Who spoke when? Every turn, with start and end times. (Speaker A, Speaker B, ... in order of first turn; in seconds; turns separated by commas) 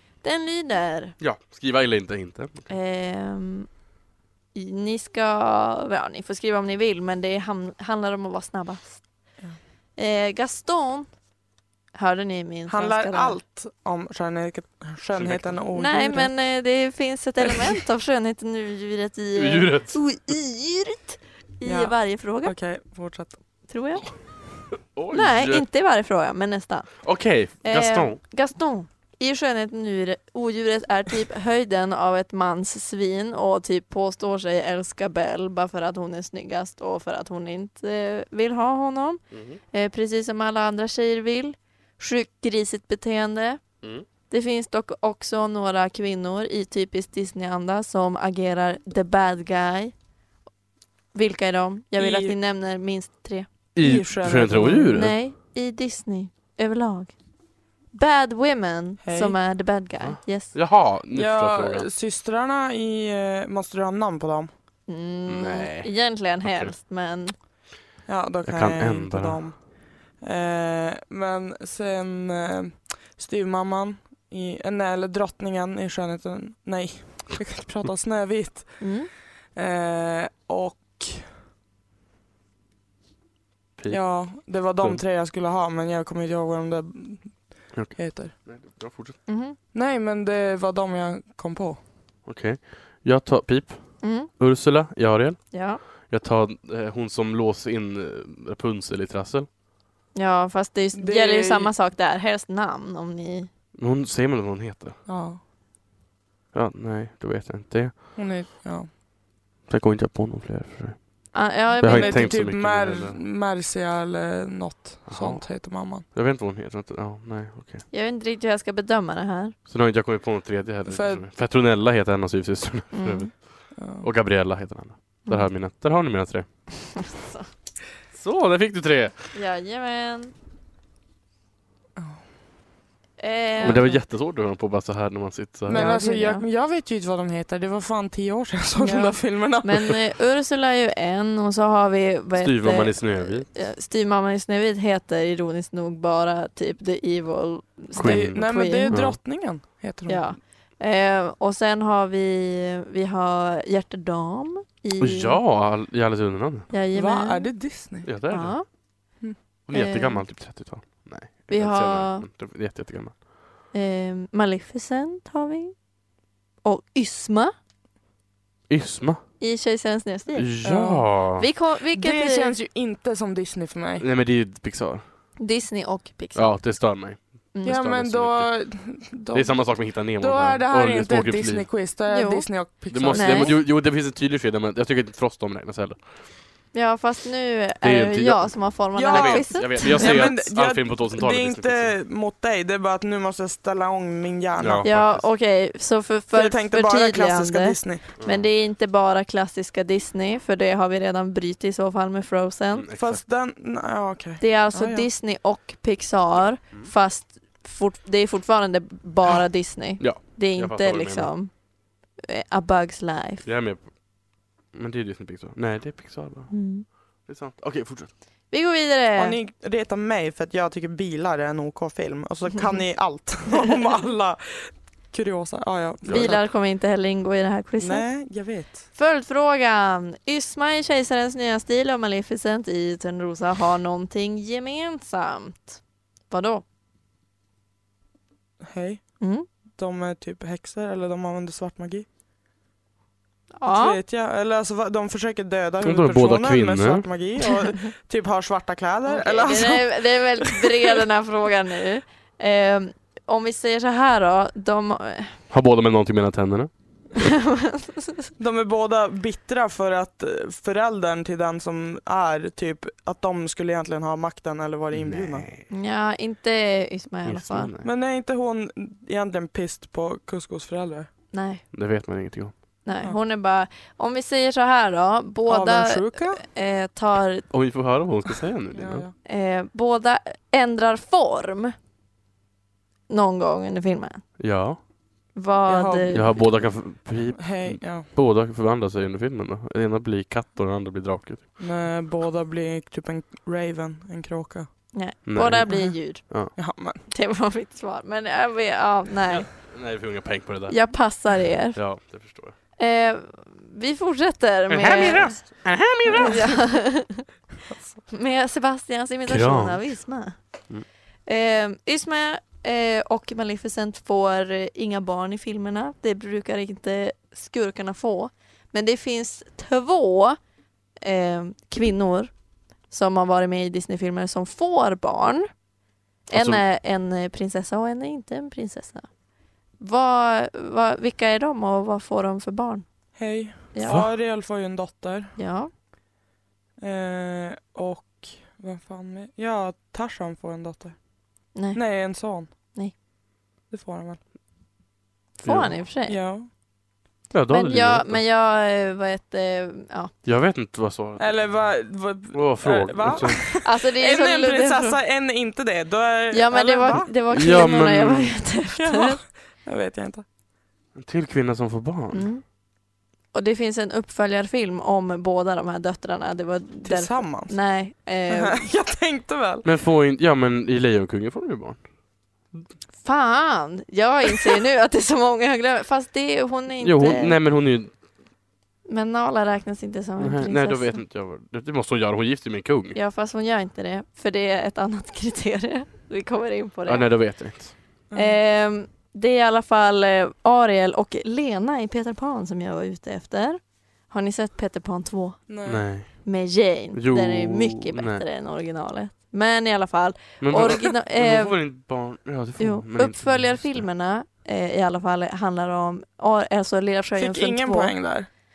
Speaker A: 0.2-1.2, Speaker B: 1.2-2.7, Speaker A: 2.7-3.7, Speaker A: 4.5-9.0, Speaker A: 10.0-11.1, Speaker A: 11.9-13.4, Speaker C: 12.7-16.3, Speaker B: 15.1-15.6, Speaker A: 15.7-22.5, Speaker B: 19.3-20.0, Speaker C: 21.6-23.4, Speaker A: 23.7-24.0, Speaker B: 24.9-25.6, Speaker A: 25.1-27.0, Speaker B: 27.0-28.2, Speaker A: 27.6-43.6, Speaker B: 39.3-39.6, Speaker A: 44.3-49.9, Speaker A: 51.1-53.5, Speaker C: 52.0-52.4, Speaker B: 53.7-55.1, Speaker C: 53.8-54.9, Speaker A: 54.9-57.1, Speaker A: 57.9-60.5, Speaker C: 59.0-59.4, Speaker B: 60.0-61.9, Speaker C: 61.1-64.5, Speaker A: 64.9-67.3, Speaker B: 65.3-65.9, Speaker B: 66.4-66.7, Speaker C: 68.0-78.9, Speaker B: 68.4-69.4, Speaker A: 78.8-79.1, Speaker C: 79.5-81.3, Speaker B: 83.8-85.0, Speaker C: 83.9-88.3, Speaker B: 87.7-89.2, Speaker A: 89.3-89.6, Speaker C: 89.7-91.8, Speaker B: 92.2-99.5, Speaker A: 94.0-94.3, Speaker A: 95.5-95.8, Speaker A: 100.1-103.5, Speaker C: 100.9-101.7, Speaker B: 103.8-105.0, Speaker C: 105.0-105.4, Speaker B: 106.5-108.1, Speaker C: 108.2-108.9, Speaker B: 109.7-113.2, Speaker A: 111.3-112.4, Speaker C: 111.8-116.0, Speaker B: 115.0-117.8, Speaker A: 117.9-119.5, Speaker B: 119.7-126.5, Speaker C: 120.8-121.2, Speaker A: 122.9-123.3, Speaker C: 123.7-124.1, Speaker A: 127.0-127.5, Speaker B: 128.1-129.3, Speaker A: 129.3-130.3, Speaker C: 131.9-132.2, Speaker A: 133.2-134.0, Speaker B: 133.6-135.8, Speaker C: 135.7-140.0, Speaker A: 135.7-136.4, Speaker A: 138.8-149.0, Speaker B: 142.4-143.5, Speaker B: 147.9-149.2, Speaker C: 147.9-150.2, Speaker A: 150.1-155.4, Speaker B: 155.0-156.7, Speaker A: 156.7-157.5, Speaker C: 156.9-158.1, Speaker B: 158.0-158.6, Speaker A: 158.3-158.7, Speaker B: 159.7-163.2, Speaker A: 159.7-160.2, Speaker A: 161.5-162.3, Speaker A: 163.7-165.7, Speaker A: 166.6-167.5, Speaker B: 168.7-169.2, Speaker A: 169.4-170.5, Speaker B: 170.3-171.4, Speaker C: 170.6-171.1, Speaker A: 171.4-172.5, Speaker C: 171.9-174.0, Speaker B: 174.0-175.0, Speaker A: 175.4-176.5, Speaker B: 176.3-178.7, Speaker A: 177.5-177.8, Speaker C: 177.6-183.6, Speaker B: 179.3-181.7, Speaker A: 182.1-183.5, Speaker B: 182.9-186.2, Speaker A: 186.7-190.3, Speaker B: 187.8-191.9, Speaker C: 188.9-194.8, Speaker B: 194.6-195.2, Speaker A: 194.8-202.9, Speaker C: 196.3-198.1, Speaker B: 198.2-198.5, Speaker B: 202.7-203.2, Speaker C: 202.9-205.1, Speaker A: 204.4-211.5, Speaker B: 210.0-211.3, Speaker A: 212.2-213.4, Speaker B: 213.4-214.1, Speaker B: 214.7-218.1, Speaker A: 216.5-216.8, Speaker A: 218.5-219.4, Speaker C: 219.2-226.5, Speaker B: 226.0-226.3, Speaker A: 226.1-228.1, Speaker C: 227.8-228.8, Speaker A: 228.9-236.6, Speaker C: 238.6-239.2, Speaker A: 239.2-239.5, Speaker C: 239.7-242.1, Speaker A: 243.6-244.0, Speaker C: 243.7-250.8, Speaker B: 245.8-247.1, Speaker A: 249.1-255.4, Speaker B: 255.5-256.7, Speaker A: 257.2-258.1, Speaker C: 258.4-265.5, Speaker B: 264.9-265.6, Speaker A: 265.7-267.7, Speaker B: 267.2-267.9, Speaker C: 267.8-271.1, Speaker A: 271.3-271.6, Speaker B: 271.7-272.6, Speaker A: 272.8-277.4, Speaker C: 275.4-276.4, Speaker B: 277.5-279.1, Speaker C: 278.7-279.1, Speaker A: 279.2-281.7, Speaker A: 283.1-284.3, Speaker B: 284.4-284.8, Speaker A: 285.3-286.4, Speaker C: 285.7-286.6, Speaker B: 286.1-291.6, Speaker C: 287.4-288.1, Speaker C: 291.6-294.8, Speaker A: 294.9-299.5, Speaker B: 295.2-296.5, Speaker C: 296.5-297.0, Speaker B: 299.3-302.6, Speaker A: 300.7-301.8, Speaker A: 302.8-305.7, Speaker B: 304.7-306.7, Speaker A: 306.2-307.3, Speaker C: 307.7-308.0, Speaker A: 308.1-310.4, Speaker B: 309.3-310.0, Speaker A: 311.2-320.4, Speaker A: 321.0-322.3, Speaker A: 322.9-325.5, Speaker A: 326.3-329.1, Speaker B: 326.3-326.6, Speaker A: 329.8-332.9, Speaker C: 333.1-335.4, Speaker A: 333.7-334.0, Speaker A: 335.4-335.7, Speaker C: 336.8-341.0, Speaker A: 341.5-342.1, Speaker C: 341.7-342.5, Speaker C: 343.7-344.2, Speaker A: 345.4-346.2, Speaker B: 345.4-345.8, Speaker C: 346.1-346.5, Speaker B: 347.3-348.2, Speaker A: 347.5-350.1, Speaker B: 350.2-351.7, Speaker C: 351.2-357.1, Speaker B: 352.3-353.5, Speaker A: 353.6-355.0, Speaker A: 356.3-359.2, Speaker B: 357.0-358.4, Speaker C: 358.7-360.2, Speaker B: 360.9-362.3, Speaker A: 362.1-362.4, Speaker A: 363.3-368.6, Speaker C: 366.8-367.6, Speaker C: 368.3-369.6, Speaker B: 369.6-371.9, Speaker A: 373.0-377.4, Speaker B: 376.8-377.9, Speaker A: 378.9-381.0, Speaker B: 380.2-383.0, Speaker A: 382.9-387.1, Speaker B: 386.9-387.8, Speaker C: 388.1-388.4, Speaker A: 388.1-401.6, Speaker C: 395.5-395.9, Speaker B: 395.6-396.3, Speaker B: 396.9-398.2, Speaker B: 400.4-403.8, Speaker A: 402.6-408.1, Speaker C: 407.1-408.3